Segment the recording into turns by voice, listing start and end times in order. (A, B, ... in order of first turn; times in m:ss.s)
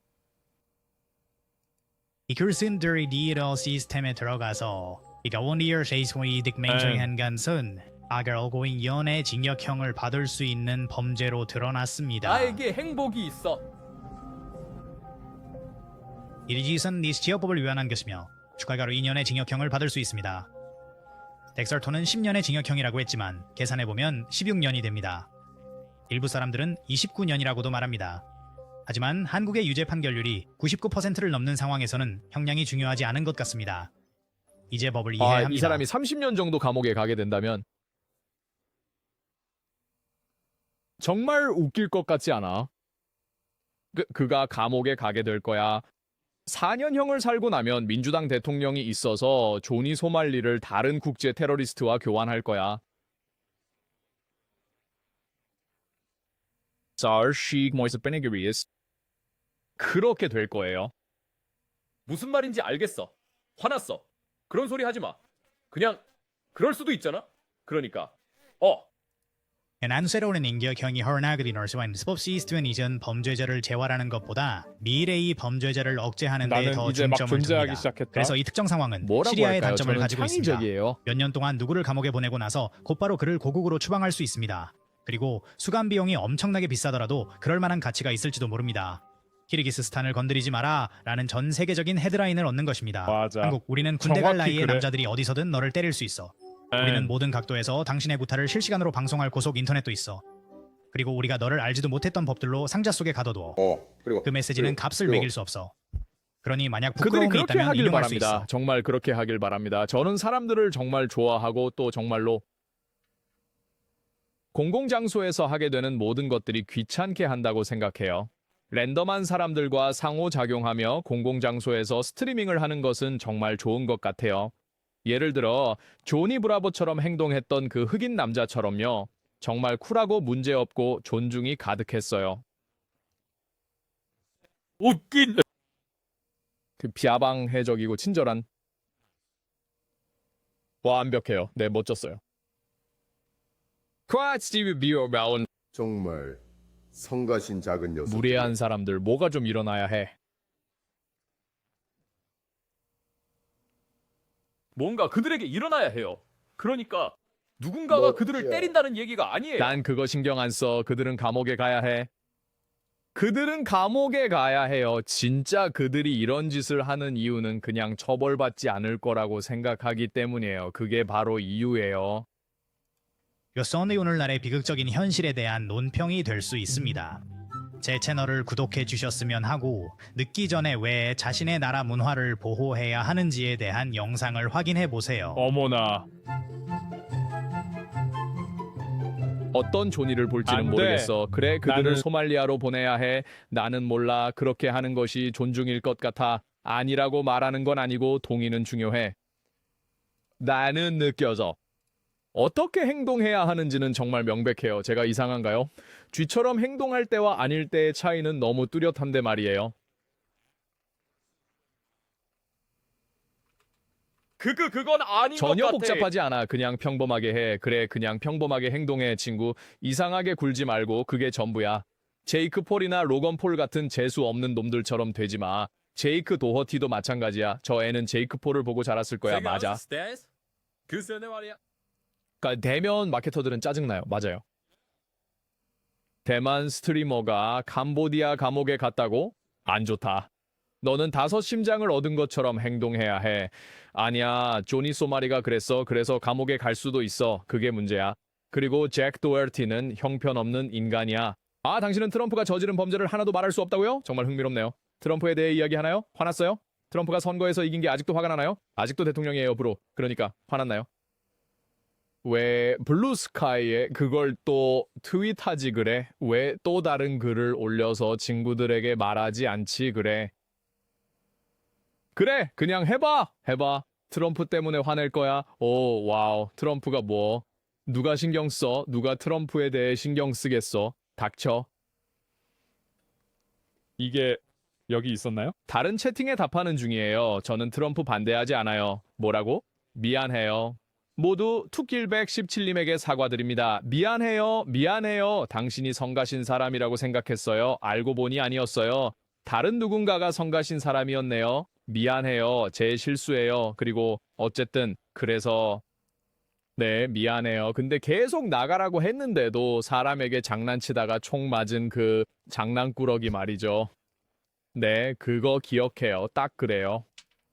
0:02.3-0:12.6 A
0:06.7-0:07.1 B
0:12.2-0:13.6 C
0:16.5-0:20.5 A
0:21.6-0:25.3 A
0:26.1-0:28.2 A
0:28.9-0:33.9 A
0:34.7-0:35.9 A
0:35.2-0:37.6 D
0:41.0-0:42.7 D
0:43.9-0:45.8 D
0:46.5-0:52.8 D
0:57.0-0:58.7 D
0:59.8-1:00.9 D
1:02.1-1:05.2 C
1:05.7-1:06.0 C
1:06.5-1:08.8 C
1:09.8-1:40.2 A
1:16.4-1:18.3 B
1:19.0-1:21.0 D
1:33.1-1:34.8 B
1:36.7-1:37.1 B
1:40.9-1:43.6 A
1:43.6-1:45.3 E
1:44.2-1:45.7 A
1:46.4-1:48.5 A
1:47.0-1:52.4 D
1:54.5-2:04.5 D
2:05.0-2:12.4 D
2:14.8-2:15.4 C
2:16.8-2:18.5 D
2:20.8-2:22.2 D
2:24.1-2:25.5 D
2:25.7-2:26.4 E
2:26.9-2:28.5 E
2:28.1-2:30.2 D
2:34.8-2:39.8 C
2:37.9-2:38.7 E
2:39.6-2:42.1 D
2:43.2-2:52.3 D
2:53.6-2:57.2 A
2:57.8-3:05.5 A
3:05.4-3:06.1 B
3:09.5-3:19.2 D
3:10.5-3:11.1 B
3:11.6-3:12.0 B
3:20.4-3:21.6 D
3:22.3-3:29.8 D
3:34.4-3:36.1 C
3:35.4-3:49.8 D
3:49.2-3:50.3 C
3:50.9-3:51.6 C
3:52.4-3:54.4 D
3:56.2-4:00.3 D
4:00.8-4:20.9 D
4:22.2-4:30.3 D
4:32.2-4:41.7 D
4:44.0-4:45.5 B
4:45.7-5:05.8 D
5:06.8-5:13.9 D
5:14.7-5:17.1 D